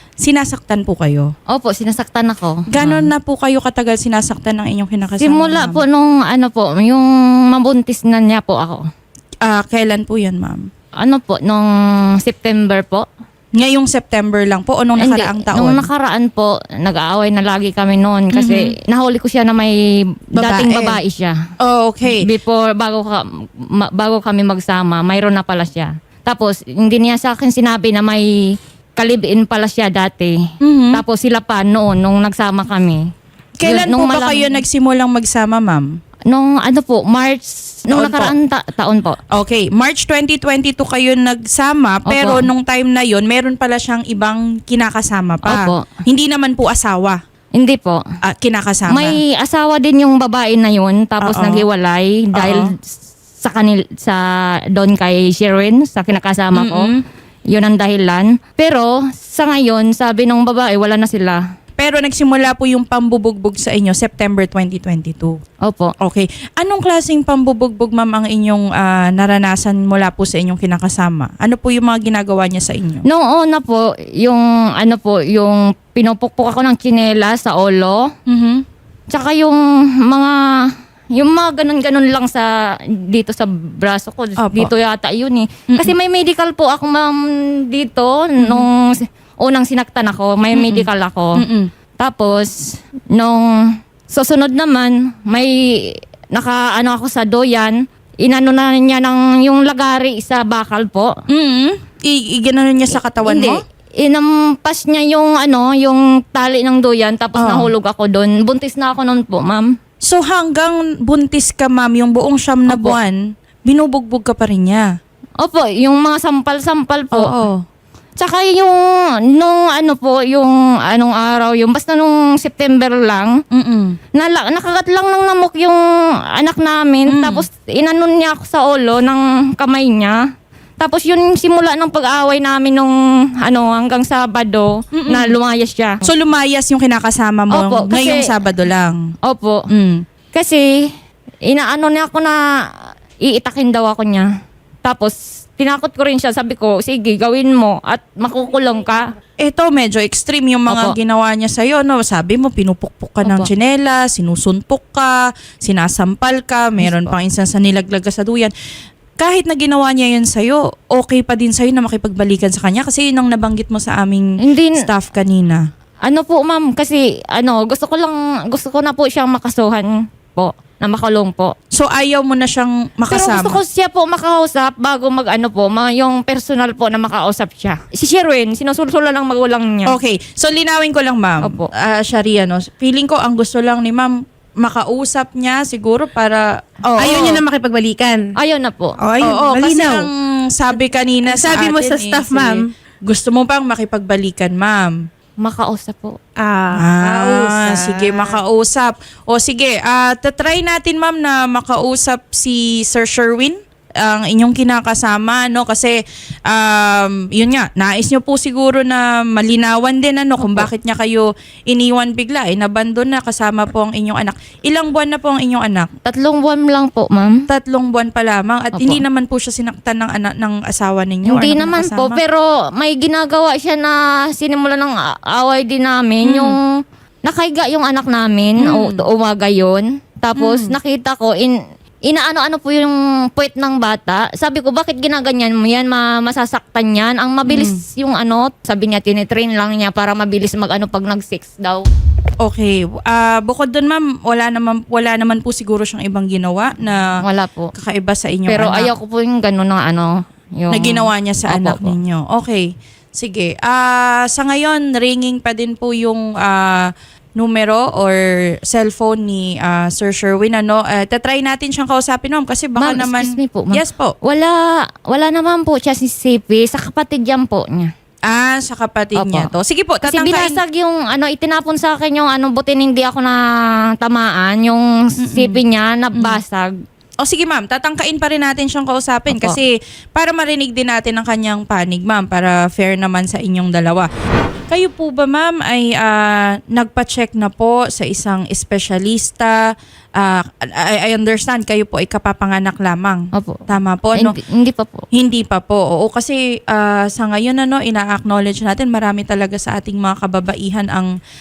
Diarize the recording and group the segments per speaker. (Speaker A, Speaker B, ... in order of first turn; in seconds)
Speaker A: 0.2-1.3, 2.7-5.8, 9.4-10.7, 13.6-15.8, 18.3-18.7, 20.4-21.0, 21.6-22.2, 30.6-31.0, 33.6-35.9, 37.9-38.3, 39.3-47.2, 48.2-49.1, 51.2-51.6, 52.4-52.6, 56.5-57.0, 61.8-65.4, 66.0-73.0, 78.3-78.6, 84.4-84.7, 88.4-88.7, 90.5-91.7, 101.3-103.6, 107.4-107.7, 110.0-114.8, 117.1-117.6, 123.5-124.0, 127.1-127.4, 134.9-135.3, 136.0-139.0, 139.7-140.0, 149.4-158.5, 159.2-165.6, 171.7-173.6, 179.8-187.4, 189.2-194.9, 196.7-205.9, 206.5-215.9, 217.5-222.2, 226.2-226.5, 228.6-229.0, 230.4-230.8, 237.4-237.8, 242.4-247.0, 247.7-248.9, 250.7-264.1, 268.3-270.6, 275.2-275.6, 277.2-284.1, 284.7-289.5, 290.2-294.3, 295.1-301.1
Speaker B: 1.5-3.1, 5.2-8.8, 11.0-11.7, 12.2-13.0, 15.0-19.7, 20.4-21.3, 22.2-23.2, 23.7-28.2, 28.9-30.4, 30.9-33.0, 33.6-34.6, 36.3-39.2, 42.1-42.4, 45.4-45.9, 47.5-48.0, 48.9-52.7, 53.4-54.2, 54.7-56.9, 57.5-61.4, 65.6-65.9, 73.1-78.0, 79.1-80.3, 81.1-82.5, 83.1-87.2, 87.7-88.9, 89.4-91.4, 92.0-92.5, 93.1-93.5, 94.1-101.1, 103.2-109.7, 112.7-113.0, 115.4-117.3, 118.2-118.8, 119.3-123.3, 124.1-125.8, 126.4-130.2, 130.8-136.0, 137.5-138.2, 139.2-139.6, 140.3-140.9, 141.4-142.4, 143.2-144.3, 144.8-149.1, 150.7-150.9, 153.2-153.5, 156.8-157.1, 164.4-164.8, 166.1-171.5, 173.1-179.9, 181.4-181.7, 188.3-189.0, 195.4-196.2, 210.4-210.7, 216.1-217.3, 218.7-219.0, 221.2-226.5, 227.2-231.5, 232.1-241.9, 247.2-247.7, 248.5-251.9, 262.8-264.6, 265.1-267.9, 269.2-269.5, 270.0-273.4, 274.0-276.7, 279.3-279.6, 293.3-293.6, 294.1-295.0
Speaker C: 186.9-188.3, 189.0-190.1, 191.2-192.7, 196.4-198.4